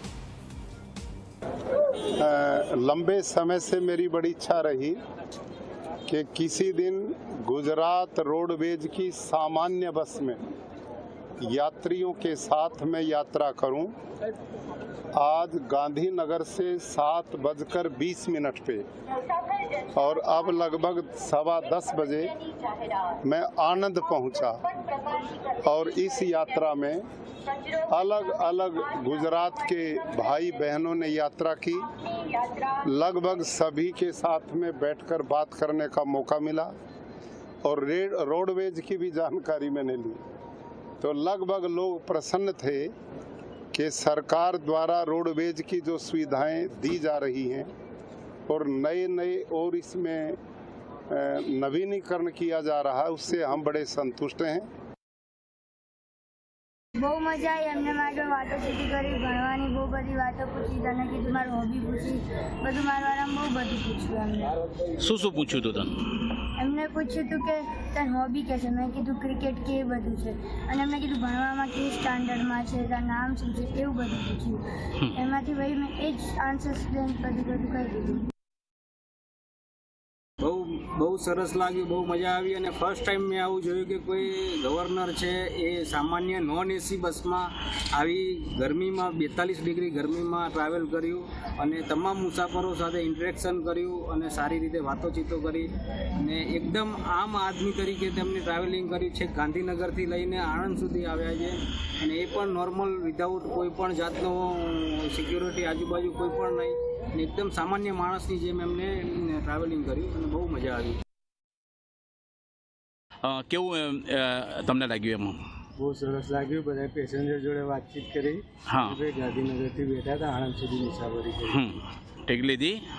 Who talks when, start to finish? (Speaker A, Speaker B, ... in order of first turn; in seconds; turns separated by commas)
Speaker A: 2.2-5.0, Speaker A: 6.1-10.4, Speaker A: 11.4-13.9, Speaker A: 15.2-18.9, Speaker A: 20.0-22.4, Speaker A: 23.2-24.6, Speaker A: 25.6-27.1, Speaker A: 27.9-31.9, Speaker A: 32.8-36.7, Speaker A: 37.6-40.2, Speaker A: 41.0-42.9, Speaker A: 43.7-47.7, Speaker A: 48.5-50.4, Speaker A: 51.1-54.7, Speaker B: 57.0-64.6, Speaker C: 65.0-66.0, Speaker B: 66.6-78.3, Speaker D: 80.4-111.0, Speaker C: 113.2-115.4, Speaker E: 115.8-121.6, Speaker C: 118.7-119.1, Speaker C: 121.5-122.8